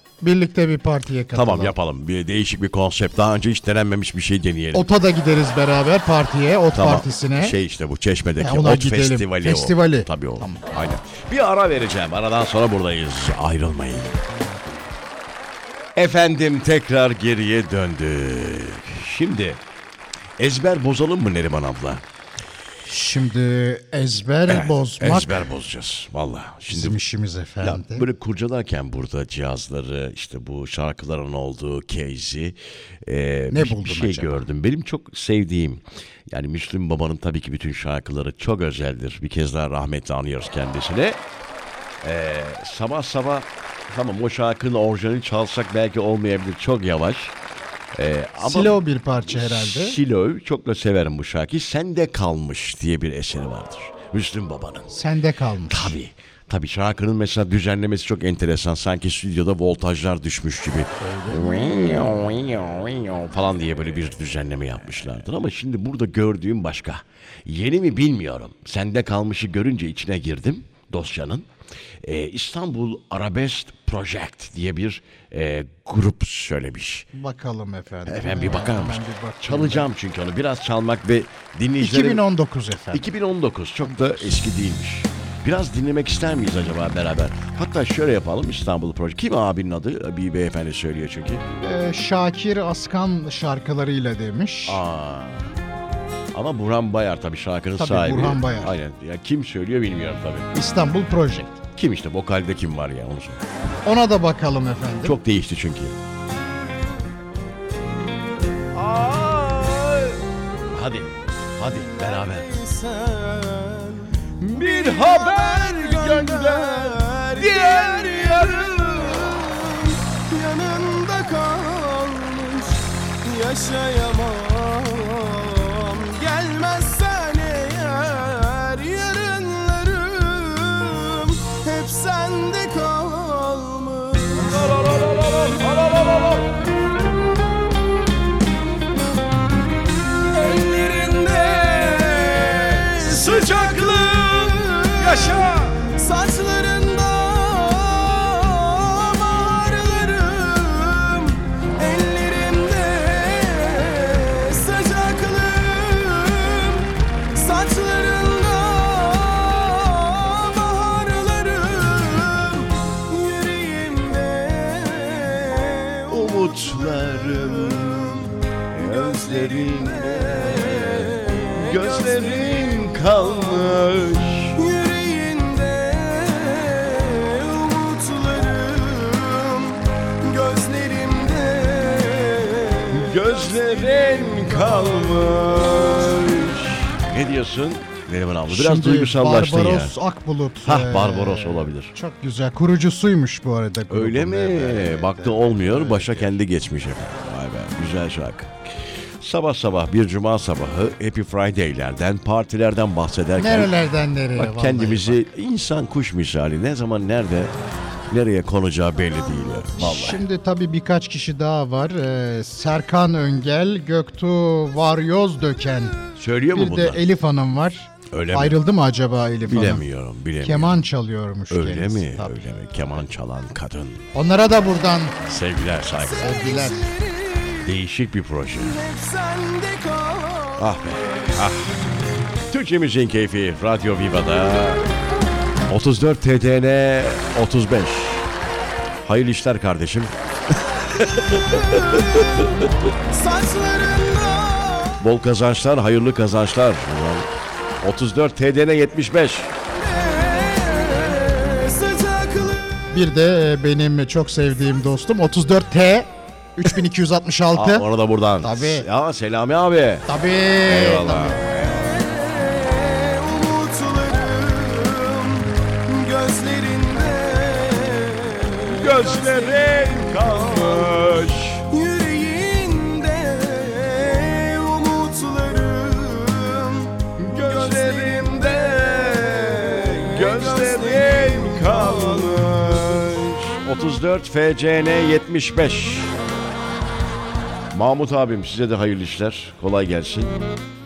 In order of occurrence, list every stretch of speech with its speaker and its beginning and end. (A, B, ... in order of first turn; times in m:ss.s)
0:00.2-0:01.7 A
0:01.3-0:04.9 B
0:04.7-0:07.6 A
0:06.7-0:14.2 B
0:08.4-0:10.6 A
0:16.0-0:19.6 B
0:20.4-0:22.0 B
0:22.8-0:25.5 A
0:24.5-0:27.0 B
0:26.7-0:28.1 A
0:27.6-0:41.2 B
0:33.5-0:34.3 A
0:42.0-0:47.4 B
0:48.0-0:54.9 B
0:48.4-0:50.0 A
0:54.9-0:56.0 A
0:55.7-1:11.5 B
1:01.0-1:01.6 A
1:12.0-1:17.1 B
1:17.1-1:19.9 A
1:18.1-1:22.2 B
1:21.8-1:23.1 A
1:22.9-1:31.4 B
1:31.6-1:34.8 A
1:34.7-1:35.5 B
1:36.3-1:40.5 B
1:37.8-1:38.8 A
1:40.5-1:41.6 A
1:41.8-1:43.4 B
1:43.8-1:45.2 A
1:45.0-1:46.0 B
1:48.7-1:52.5 B
1:51.8-2:14.7 C
1:54.4-1:59.4 B
2:14.4-2:16.6 B
2:20.2-2:53.8 C
2:22.3-2:25.9 B
2:46.1-2:54.6 B
2:54.5-3:06.6 C
3:02.9-3:09.9 B
3:08.5-3:16.3 A
3:10.6-3:11.9 B
3:13.9-3:23.7 B
3:23.4-3:25.2 A
3:24.4-3:27.5 B
3:28.1-3:30.2 B
3:29.8-3:36.0 A
3:36.2-3:37.0 B
3:36.5-3:39.8 A
3:38.1-3:38.6 B
3:39.5-3:40.8 B
3:40.4-3:42.3 A
3:41.5-3:44.1 B
3:44.1-3:45.2 A
3:45.2-3:46.3 B
3:46.0-3:47.7 C
3:46.2-3:46.9 A
3:47.6-3:48.8 B
3:48.6-3:51.3 C
3:50.6-3:51.8 B
3:52.5-3:54.9 B
3:55.7-3:58.3 B
3:59.0-4:02.5 B
4:01.3-4:05.0 C
4:05.0-4:07.3 B
4:07.8-4:09.5 B
4:09.7-4:12.7 C
4:12.9-4:17.9 A
4:17.5-4:20.1 B
4:18.4-4:18.9 A
4:20.1-4:21.4 A
4:20.6-4:21.8 B
4:21.4-4:42.8 C
4:28.7-4:31.6 B
4:37.2-4:46.1 B
4:47.7-4:50.4 B